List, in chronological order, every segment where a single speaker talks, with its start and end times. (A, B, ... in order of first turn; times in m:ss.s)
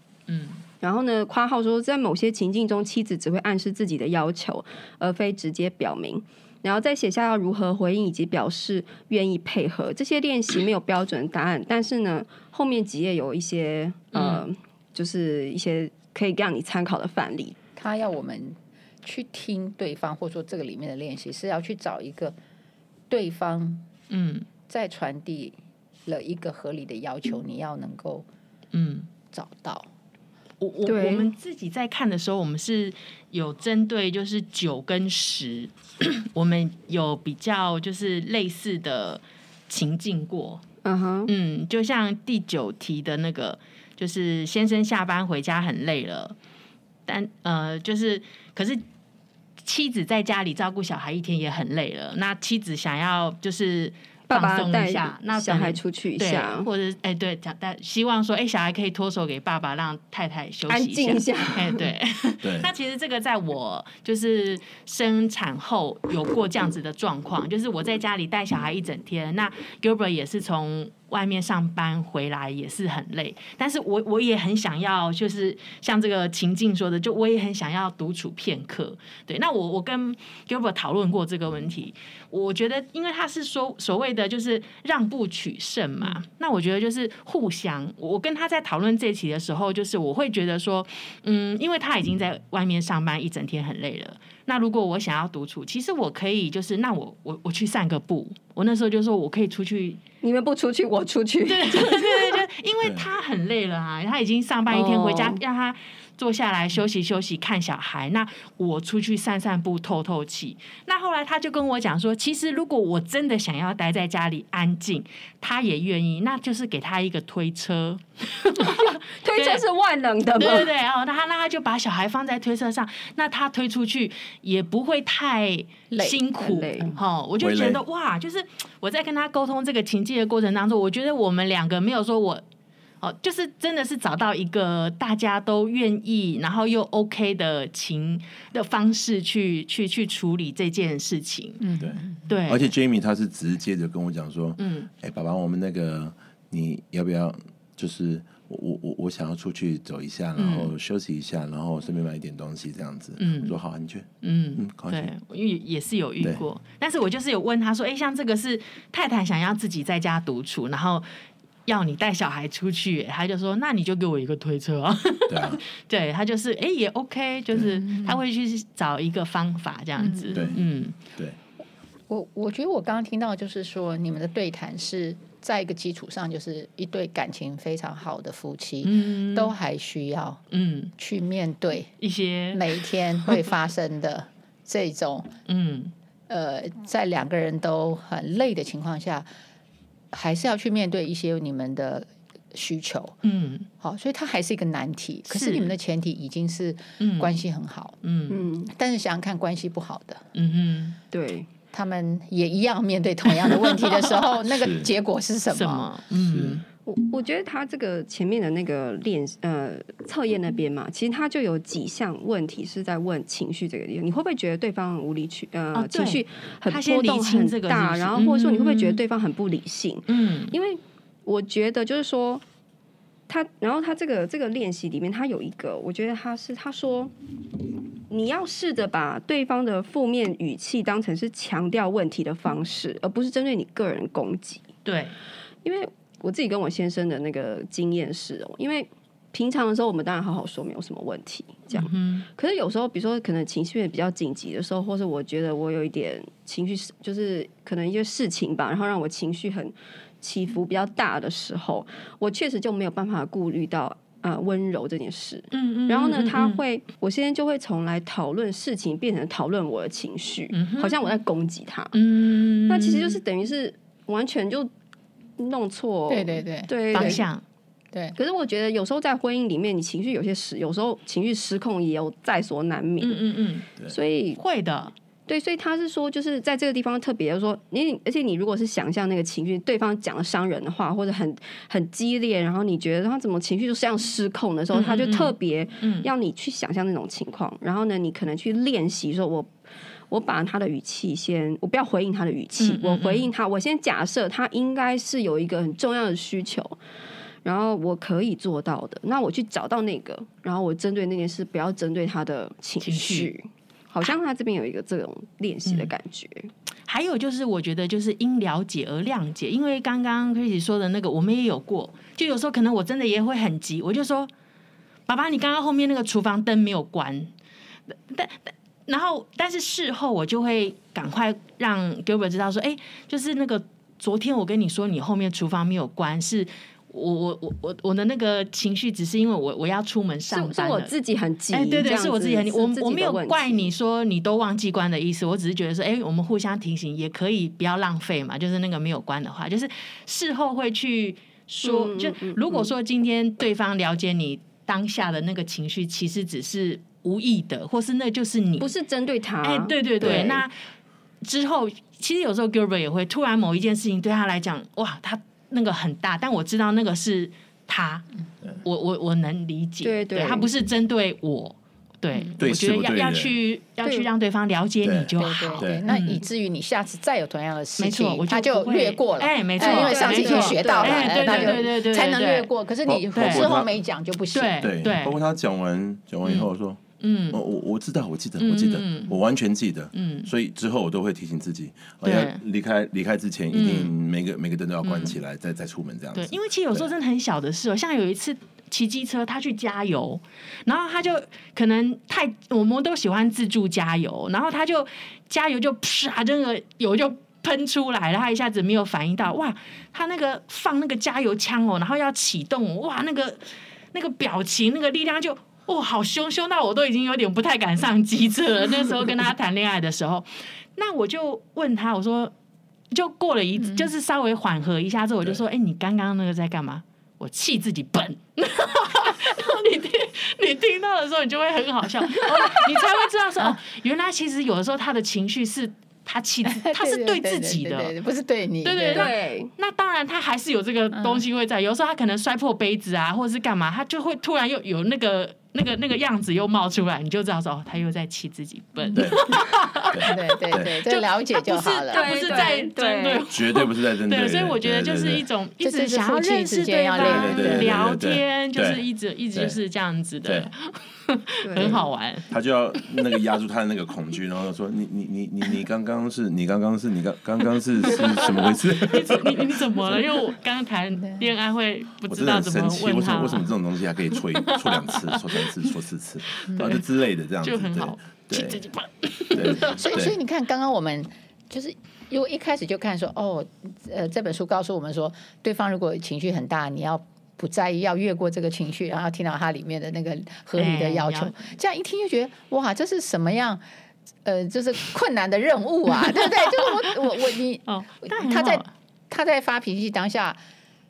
0:00.3-0:00.6 A
0:00.8-0:17.6 B
0:14.1-0:14.4 A
0:17.8-0:22.4 C
0:23.1-0:23.9 C
0:24.1-0:24.5 A
0:24.7-0:28.2 C
0:28.7-0:29.1 A
0:29.3-0:29.9 C
0:30.6-0:40.6 A
0:30.8-0:31.3 B
0:40.8-0:41.3 B
0:41.3-0:46.4 A
0:47.1-0:48.8 A
0:49.6-1:40.0 A
0:54.3-0:56.7 B
1:00.7-1:01.9 B
1:02.4-1:02.7 D
1:40.2-1:42.4 B
1:41.5-1:59.6 A
1:42.8-1:43.1 D
1:44.7-1:45.4 B
1:58.6-2:00.7 B
2:00.4-2:12.4 A
2:05.9-2:06.2 C
2:06.4-2:06.9 B
2:07.4-2:07.8 D
2:13.0-2:21.6 A
2:21.6-2:22.2 C
2:21.8-2:35.1 D
2:22.3-2:22.7 A
2:24.6-2:24.9 A
2:30.4-2:30.7 A
2:33.2-2:33.6 A
2:34.2-2:41.0 A
2:41.6-2:51.0 A
2:45.3-2:45.6 D
2:47.8-2:48.2 C
2:50.0-2:50.5 C
2:50.3-2:50.6 D
2:52.1-3:00.4 C
2:58.8-2:59.5 A
3:00.5-3:00.9 A
3:01.0-3:01.9 C
3:02.0-3:02.8 A
3:02.5-3:05.3 C
3:05.5-3:05.9 A
3:06.3-3:09.3 C
3:10.1-3:13.2 C
3:13.2-3:13.7 A
3:13.8-3:18.0 C
3:15.3-3:15.7 A
3:17.0-3:17.3 A
3:18.0-3:18.4 A
3:18.3-3:18.7 B
3:18.6-3:20.2 C
3:20.3-3:21.0 A
3:21.1-3:21.5 B
3:21.7-3:25.9 C
3:24.5-3:24.9 D
3:25.5-3:26.6 A
3:26.2-3:26.6 D
3:26.8-3:42.4 B
3:35.7-3:39.0 A
3:40.1-3:40.5 A
3:43.3-3:47.1 B
3:48.1-3:54.7 B
3:54.8-3:55.2 A
3:55.6-4:22.0 B
4:01.7-4:02.2 A
4:15.5-4:16.6 A
4:20.5-4:21.1 A
4:21.9-4:23.2 A
4:22.7-4:24.7 B
4:25.4-4:27.2 B
4:26.1-4:27.2 C
4:26.9-4:27.4 A
4:28.2-4:33.2 B
4:33.0-4:33.7 A
4:33.8-4:34.4 B
4:34.4-4:34.9 A
4:35.3-4:49.5 B
4:44.7-4:46.1 A
4:50.1-4:56.8 B
4:52.6-4:53.3 A
4:57.4-5:06.5 B
5:02.8-5:03.3 A
5:05.6-5:05.9 A
5:06.9-5:14.3 A
5:15.1-5:17.3 A
5:17.9-5:30.9 A
5:30.3-5:33.7 B
5:31.5-5:48.7 A
5:41.6-5:42.7 B
5:48.6-5:50.4 B
5:49.4-5:50.5 A
5:50.0-5:50.3 D
5:51.2-5:58.1 A
5:58.6-6:06.2 A
5:59.8-6:00.5 B
6:02.4-6:03.3 D
6:03.8-6:04.1 B
6:04.8-6:05.8 D
6:05.2-6:14.7 C
6:07.8-6:12.5 A
6:09.6-6:11.7 B
6:12.9-6:13.7 D
6:13.1-6:13.5 A
6:14.3-6:15.2 A
6:14.6-6:16.8 D
6:17.0-6:17.4 A
6:17.3-6:26.9 D
6:18.4-6:19.2 A
6:19.9-6:20.3 A
6:22.0-6:22.4 A
6:23.5-6:23.9 A
6:24.8-6:25.2 A
6:26.2-6:52.3 A
6:52.9-7:08.0 A
6:53.6-6:53.9 C
7:06.4-7:09.1 C
7:08.6-7:32.3 A
7:08.9-7:09.5 B
7:10.9-7:11.2 C
7:18.9-7:19.4 D
7:19.9-7:20.7 D
7:20.0-7:22.5 C
7:21.9-7:23.3 B
7:23.3-7:25.2 D
7:25.6-7:27.7 C
7:27.0-7:29.6 D
7:30.2-7:30.5 D
7:31.4-7:31.8 B
7:32.3-7:40.0 D
7:38.8-7:43.5 A
7:42.1-7:48.6 D
7:44.7-7:45.4 A
7:46.4-7:46.8 A
7:46.5-7:46.8 C
7:47.4-7:50.0 A
7:49.3-7:50.1 D
7:49.5-8:03.6 C
8:00.6-8:01.5 A
8:04.2-8:10.4 C
8:06.3-8:07.0 A
8:07.7-8:08.7 A